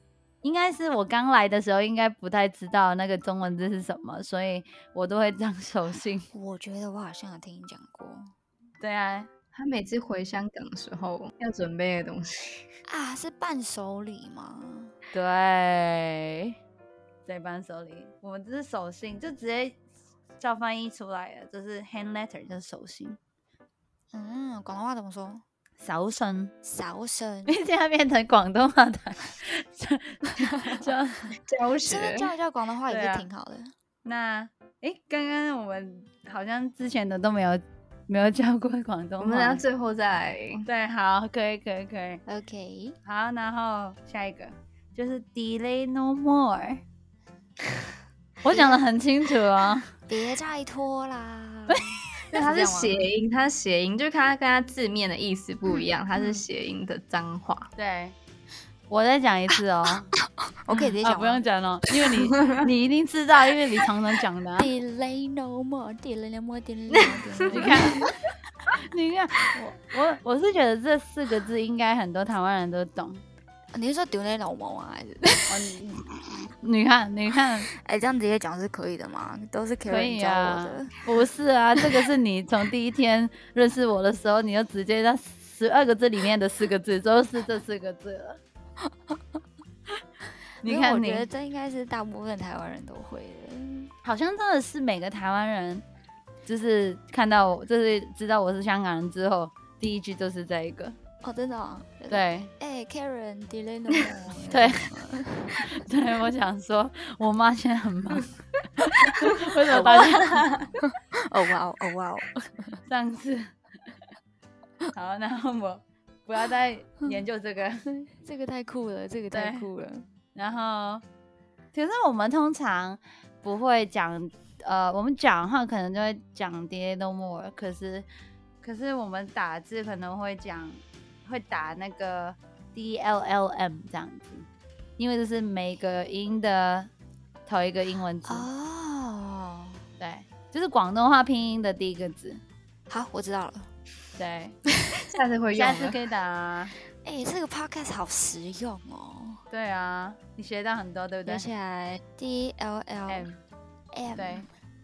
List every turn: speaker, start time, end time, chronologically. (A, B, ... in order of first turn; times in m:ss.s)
0:00.4-0:06.3 A
0:06.3-0:08.3 B
0:08.8-0:09.3 A
0:09.5-0:12.6 C
0:12.9-0:14.9 B
0:15.1-0:16.6 A
0:17.2-0:19.8 A
0:20.4-0:23.2 A
0:24.1-0:25.4 B
0:25.8-0:26.5 A
0:26.6-0:27.6 B
0:27.4-0:31.3 A
0:31.3-0:32.3 C
0:31.8-0:33.7 B
0:32.9-0:33.3 A
0:34.0-0:39.6 A
0:39.2-0:40.7 C
0:40.6-0:42.2 A
0:42.3-0:43.0 B
0:43.0-0:46.8 A
0:48.4-0:49.9 A
0:48.5-0:48.8 B
0:50.1-0:53.0 B
0:51.7-0:52.0 A
0:52.3-0:57.7 C
0:56.2-0:56.4 B
0:57.8-0:58.2 A
0:58.9-1:00.1 A
1:00.1-1:01.4 B
1:00.7-1:04.7 A
1:04.5-1:08.1 B
1:06.9-1:07.9 C
1:07.5-1:08.1 A
1:08.8-1:13.2 A
1:13.7-1:15.7 B
1:15.5-1:17.7 A
1:17.7-1:21.0 B
1:19.8-1:28.4 A
1:30.6-1:31.3 A
1:30.6-1:33.9 B
1:34.0-1:35.8 A
1:36.4-1:41.0 A
1:41.2-1:45.6 B
1:42.1-1:42.5 A
1:44.5-1:48.3 A
1:49.1-1:50.6 A
1:49.2-1:52.8 B
1:49.8-1:50.7 C
1:52.9-1:53.5 A
1:54.9-1:57.8 A
1:57.9-2:00.0 B
1:59.3-1:59.7 A
2:00.3-2:01.0 A
2:01.7-2:08.1 A
2:08.6-2:14.5 A
2:15.0-2:16.9 A
2:17.4-2:18.5 A
2:18.3-2:19.8 B
2:20.0-2:22.4 A
2:22.9-2:23.7 B
2:24.2-2:24.6 A
2:24.9-2:26.0 C
2:25.5-2:26.7 A
2:27.0-2:29.4 B
2:29.5-2:31.5 A
2:31.2-2:33.3 B
2:33.1-2:33.4 A
2:33.9-2:34.5 B
2:34.2-2:34.4 A